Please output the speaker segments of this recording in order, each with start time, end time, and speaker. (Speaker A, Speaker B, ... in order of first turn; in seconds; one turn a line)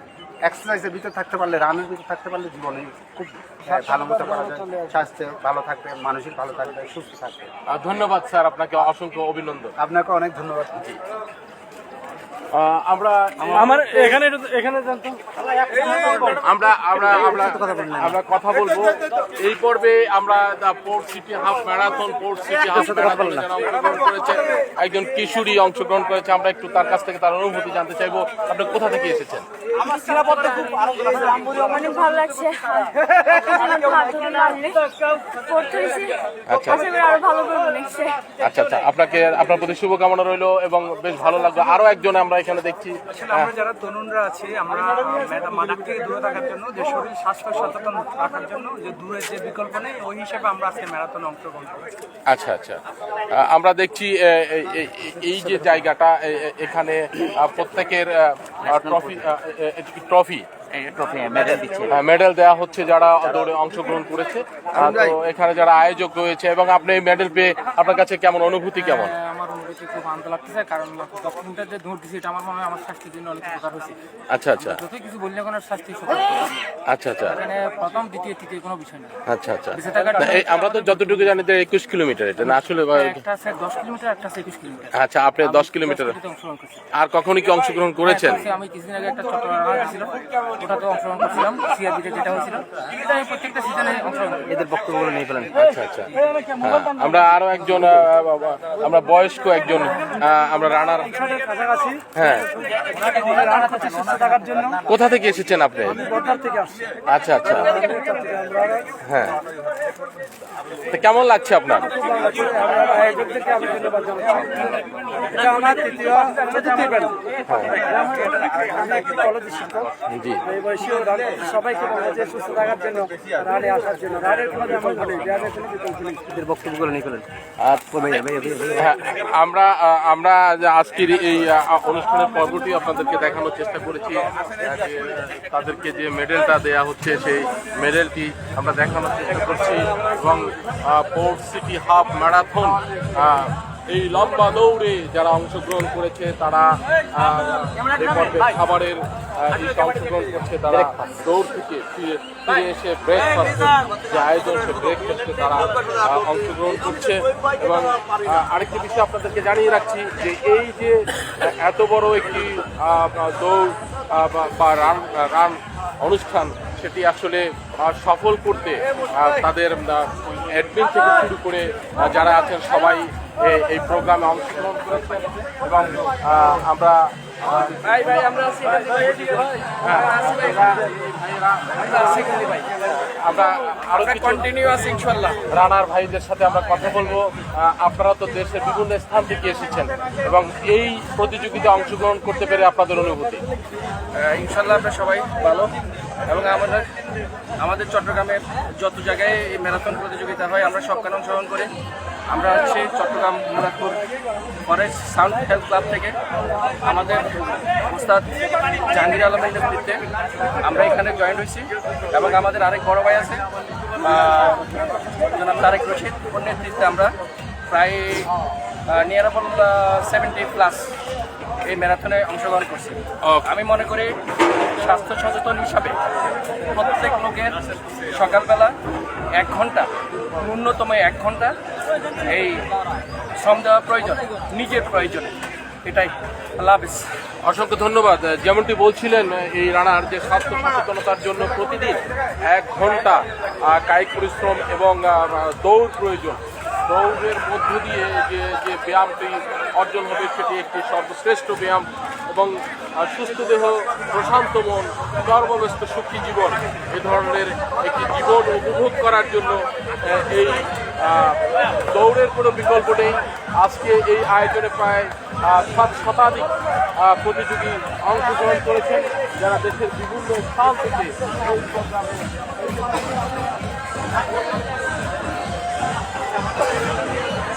Speaker A: 0.4-3.1
Speaker B: 3.2-5.1
Speaker A: 3.6-7.5
Speaker C: 7.7-9.7
Speaker A: 9.8-10.7
Speaker C: 12.5-14.3
Speaker D: 13.4-15.2
Speaker C: 16.0-29.4
Speaker D: 17.1-18.2
Speaker D: 22.6-23.5
Speaker E: 31.6-34.8
Speaker E: 35.5-38.2
Speaker C: 36.5-36.9
Speaker C: 38.4-43.5
Speaker F: 43.1-51.9
Speaker C: 52.3-60.5
Speaker D: 58.6-59.2
Speaker D: 60.7-62.0
Speaker C: 61.9-69.1
Speaker D: 64.8-65.0
Speaker G: 68.8-74.0
Speaker C: 74.3-74.8
Speaker G: 74.6-76.6
Speaker C: 76.9-77.4
Speaker G: 77.3-79.2
Speaker C: 79.3-83.2
Speaker G: 79.7-81.4
Speaker G: 82.5-86.8
Speaker C: 84.9-86.2
Speaker C: 87.0-88.4
Speaker G: 88.0-94.5
Speaker D: 94.5-95.6
Speaker C: 95.5-101.2
Speaker C: 102.1-102.5
Speaker G: 103.0-104.8
Speaker C: 104.9-106.0
Speaker B: 106.2-106.6
Speaker C: 107.1-107.9
Speaker B: 107.9-108.8
Speaker C: 109.0-109.4
Speaker C: 110.9-111.9
Speaker B: 112.2-114.3
Speaker B: 115.4-117.1
Speaker C: 117.5-117.8
Speaker B: 119.0-119.7
Speaker C: 120.1-120.4
Speaker B: 121.7-123.0
Speaker B: 123.5-125.5
Speaker D: 126.1-127.2
Speaker C: 127.6-177.8
Speaker D: 127.9-128.9
Speaker F: 177.8-180.6
Speaker C: 179.8-182.4
Speaker F: 181.8-182.7
Speaker C: 183.2-184.5
Speaker F: 184.0-185.4
Speaker C: 185.5-193.4
Speaker F: 194.1-195.7
Speaker F: 196.3-196.9
Speaker F: 197.6-201.7
Speaker F: 202.3-204.0
Speaker F: 204.7-206.2
Speaker F: 206.8-210.0
Speaker F: 210.6-213.4
Speaker F: 214.0-217.2
Speaker F: 217.7-218.3
Speaker F: 218.9-220.9
Speaker F: 221.6-224.2
Speaker C: 223.2-223.5
Speaker F: 224.8-226.0
Speaker F: 226.7-228.8
Speaker F: 229.3-231.6
Speaker F: 232.2-232.7
Speaker F: 233.4-237.1
Speaker C: 237.4-266.5
Speaker C: 267.0-272.2